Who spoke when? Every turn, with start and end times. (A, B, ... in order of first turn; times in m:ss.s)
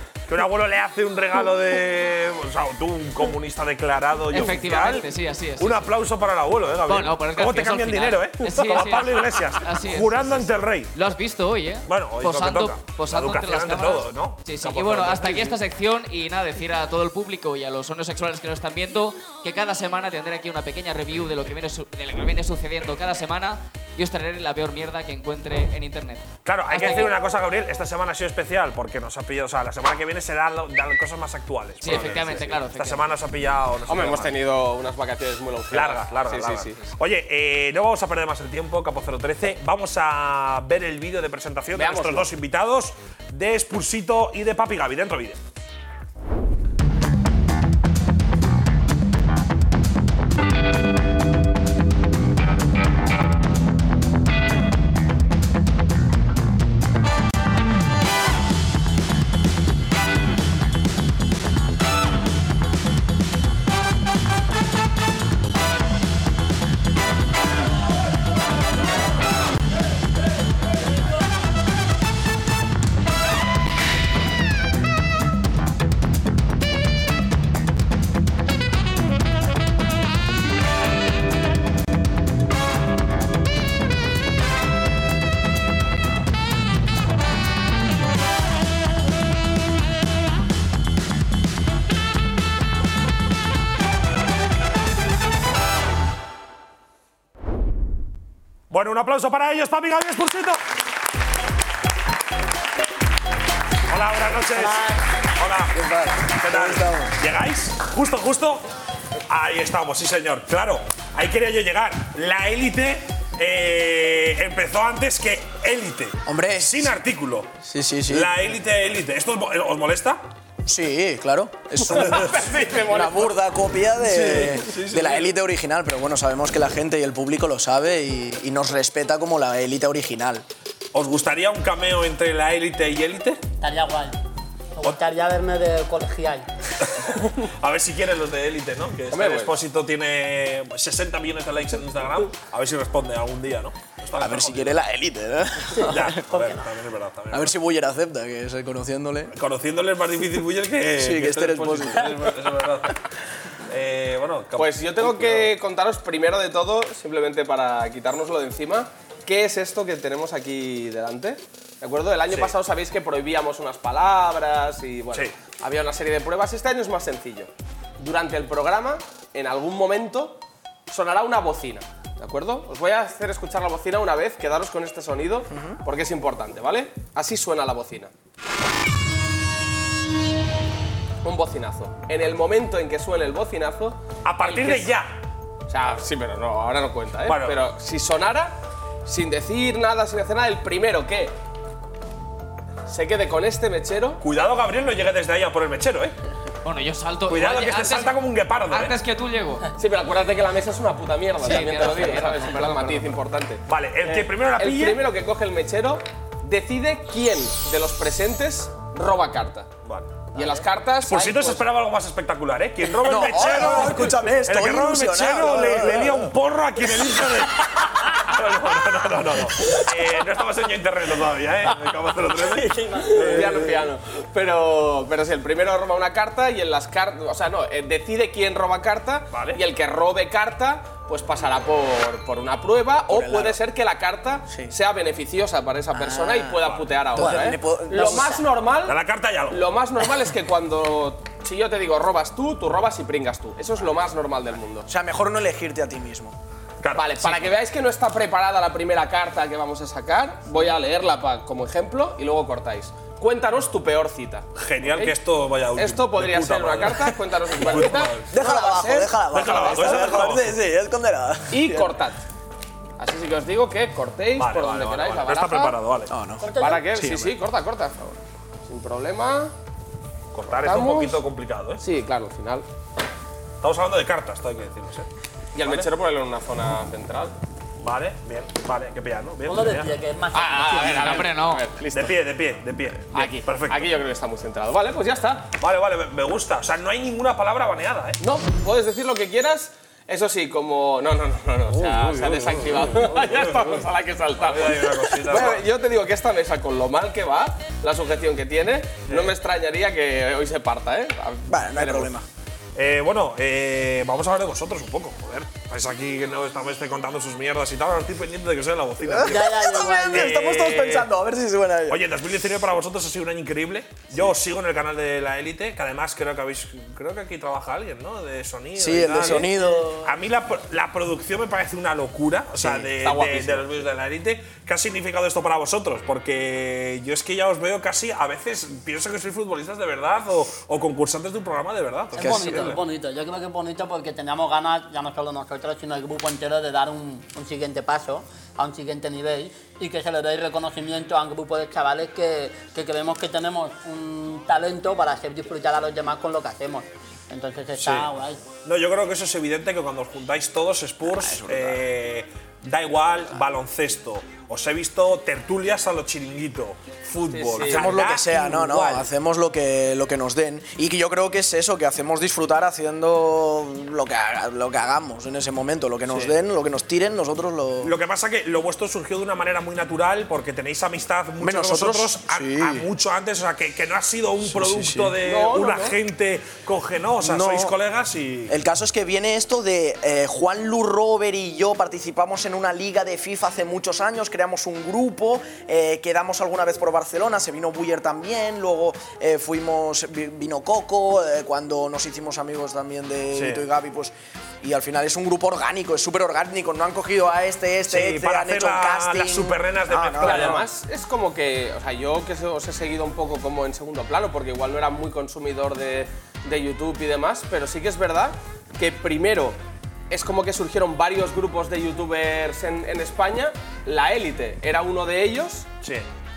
0:00.3-0:10.9 A
0:04.3-0:05.9 B
0:06.9-0:27.2 B
0:11.9-0:15.6 A
0:26.4-0:34.3 A
0:31.8-0:33.1 B
0:33.9-0:36.8 C
0:35.7-0:45.4 A
0:41.7-0:42.3 C
1:38.7-1:40.6 A
1:43.9-1:44.8 A
1:44.5-1:45.0 D
1:45.4-1:45.8 A
1:45.7-1:47.2 E
1:46.3-1:48.6 A
1:49.3-1:57.5 A
1:56.3-1:56.9 E
1:57.6-1:58.3 E
1:58.1-2:00.2 A
2:00.7-2:10.5 E
2:01.8-2:03.4 C
2:02.0-2:02.3 A
2:04.0-2:05.3 A
2:10.9-2:13.4 A
2:13.6-2:14.2 D
2:14.8-2:16.5 D
2:16.8-2:24.8 A
2:19.1-2:19.6 C
2:24.2-2:26.1 E
2:25.8-2:26.6 D
2:25.8-2:27.5 A
2:27.3-2:29.3 E
2:29.3-2:33.0 A
2:31.0-2:32.3 E
2:33.7-2:35.5 A
2:34.6-2:58.1 C
2:42.3-2:42.5 A
2:55.5-2:55.8 E
3:01.2-3:04.9 C
3:04.2-3:05.2 A
3:05.7-3:11.4 C
3:07.2-3:07.6 A
3:12.9-3:14.2 C
3:14.2-3:16.2 A
3:16.6-3:18.2 B
3:17.3-3:19.0 A
3:18.7-3:19.7 B
3:19.8-3:29.7 C
3:21.4-3:23.2 B
3:23.7-3:25.0 A
3:29.8-3:30.2 A
3:30.3-3:31.7 C
3:31.0-3:43.8 A
3:33.0-3:36.3 E
3:42.8-3:43.1 D
3:43.0-4:04.9 C
3:49.3-3:49.6 A
3:53.1-3:53.6 E
3:55.9-3:58.5 E
3:58.8-3:59.7 A
4:04.9-4:06.4 E
4:06.8-4:07.5 A
4:06.9-4:15.2 C
4:14.6-4:18.4 A
4:15.7-4:20.3 C
4:18.3-4:22.0 E
4:19.3-4:20.6 A
4:21.5-4:22.2 C
4:23.0-4:25.8 C
4:24.4-4:26.1 A
4:26.1-4:27.4 E
4:26.4-4:26.9 D
4:26.6-4:29.5 C
4:30.3-4:31.8 A
4:30.5-4:31.2 C
4:31.8-4:32.7 C
4:33.6-4:35.1 A
4:35.6-4:37.4 C
4:35.6-4:35.9 A
4:37.8-4:40.0 A
4:39.5-4:41.3 D
4:40.3-4:42.2 C
4:40.8-4:41.6 B
4:41.9-4:43.9 A
4:43.1-4:45.5 C
4:45.6-4:48.2 A
4:48.2-5:02.1 C
4:51.7-4:53.8 A
4:54.4-4:55.7 A
4:59.1-4:59.3 A
5:01.5-5:02.2 E
5:02.8-5:11.1 A
5:09.0-5:12.0 E
5:09.3-5:10.4 D
5:11.9-5:32.8 A
5:18.8-5:20.2 E
5:22.6-5:22.9 E
5:23.0-5:23.8 C
5:32.2-5:48.4 D
5:32.2-5:32.8 E
5:47.8-5:48.1 A
5:48.6-5:59.1 A
5:51.0-5:51.8 E
5:57.3-5:58.0 C
5:57.6-6:08.0 E
6:06.1-6:06.4 A
6:07.8-6:18.5 A
6:11.4-6:12.9 E
6:14.4-6:15.2 E
6:15.2-6:16.0 C
6:17.2-6:17.8 E
6:18.5-6:40.6 E
6:33.3-6:33.6 A
6:37.9-6:40.6 A
6:40.2-6:49.6 C
6:50.1-6:55.7 C